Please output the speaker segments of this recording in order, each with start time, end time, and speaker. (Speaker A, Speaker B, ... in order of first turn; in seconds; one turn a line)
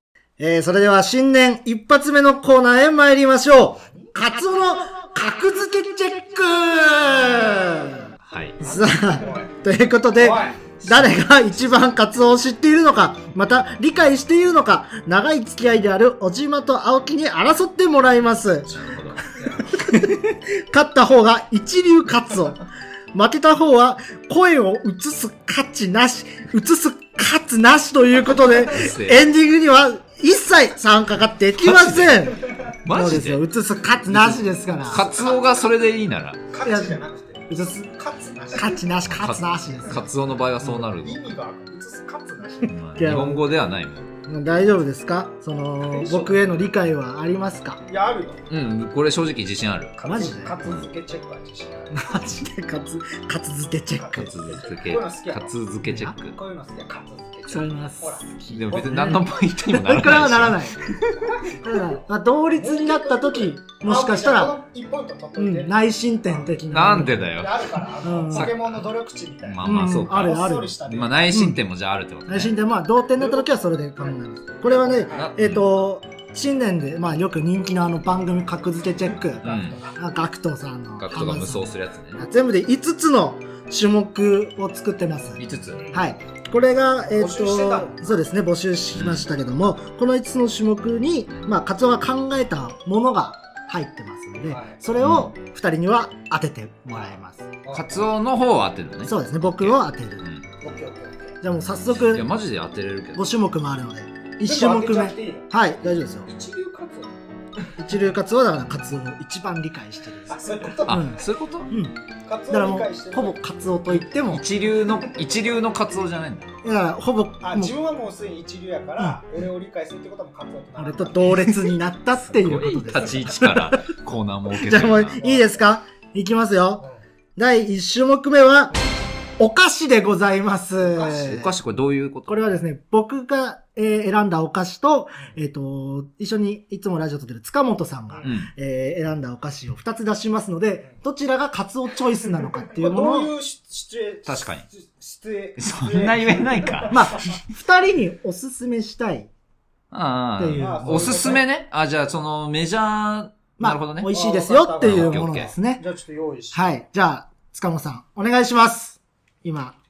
Speaker A: 0.4-18.7
Speaker B: 3.7-4.2
Speaker C: 8.3-8.6
Speaker B: 8.6-9.5
Speaker B: 10.2-10.6
Speaker C: 18.7-19.2
Speaker B: 19.2-19.7
Speaker A: 19.6-35.1
Speaker C: 28.6-29.3
Speaker C: 31.6-33.4
Speaker C: 34.1-36.4
Speaker B: 35.0-35.4
Speaker B: 36.5-38.9
Speaker A: 36.6-37.9
Speaker A: 38.5-40.1
Speaker C: 39.0-41.3
Speaker B: 40.8-42.8
Speaker C: 42.7-44.1
Speaker A: 43.0-43.5
Speaker A: 44.2-47.8
Speaker B: 45.8-46.4
Speaker B: 47.9-48.4
Speaker C: 48.5-49.9
Speaker B: 50.0-52.0
Speaker A: 50.0-50.6
Speaker A: 51.9-54.4
Speaker B: 53.9-55.5
Speaker C: 54.1-56.4
Speaker A: 55.9-56.1
Speaker B: 56.3-59.2
Speaker A: 57.5-64.6
Speaker C: 58.5-61.0
Speaker B: 61.1-66.6
Speaker A: 65.4-67.3
Speaker C: 66.7-67.8
Speaker B: 67.4-71.2
Speaker A: 68.0-68.5
Speaker C: 68.3-68.9
Speaker C: 69.4-72.5
Speaker A: 69.6-70.8
Speaker A: 71.3-71.6
Speaker A: 72.3-97.5
Speaker B: 73.2-73.5
Speaker B: 74.0-75.4
Speaker C: 75.1-75.7
Speaker B: 79.4-79.9
Speaker C: 79.4-79.8
Speaker C: 81.0-82.2
Speaker C: 85.4-85.8
Speaker B: 85.7-86.1
Speaker B: 87.1-88.1
Speaker C: 88.9-89.3
Speaker B: 94.5-94.8
Speaker C: 95.0-95.3
Speaker B: 97.6-98.0
Speaker C: 97.7-100.4
Speaker A: 99.0-100.3
Speaker B: 100.6-101.4
Speaker A: 101.4-102.3
Speaker C: 101.9-103.3
Speaker A: 103.2-106.3
Speaker B: 104.4-105.5
Speaker B: 106.3-107.2
Speaker A: 107.8-112.0
Speaker B: 110.3-111.2
Speaker C: 110.9-111.7
Speaker B: 112.2-113.4
Speaker A: 112.5-114.4
Speaker C: 114.3-116.5
Speaker A: 116.6-117.8
Speaker B: 117.4-121.6
Speaker A: 120.8-123.9
Speaker C: 122.3-125.2
Speaker A: 124.5-126.8
Speaker B: 125.2-125.6
Speaker A: 127.4-128.8
Speaker A: 129.4-131.6
Speaker B: 130.8-131.4
Speaker C: 131.0-132.6
Speaker A: 132.3-143.3
Speaker B: 138.1-138.3
Speaker C: 138.2-138.5
Speaker B: 142.7-147.0
Speaker C: 144.2-144.7
Speaker C: 145.6-147.1
Speaker A: 146.9-149.3
Speaker C: 149.9-154.1
Speaker A: 150.4-151.3
Speaker B: 150.6-151.4
Speaker A: 153.6-155.8
Speaker B: 154.1-156.8
Speaker C: 154.8-155.5
Speaker A: 156.5-159.8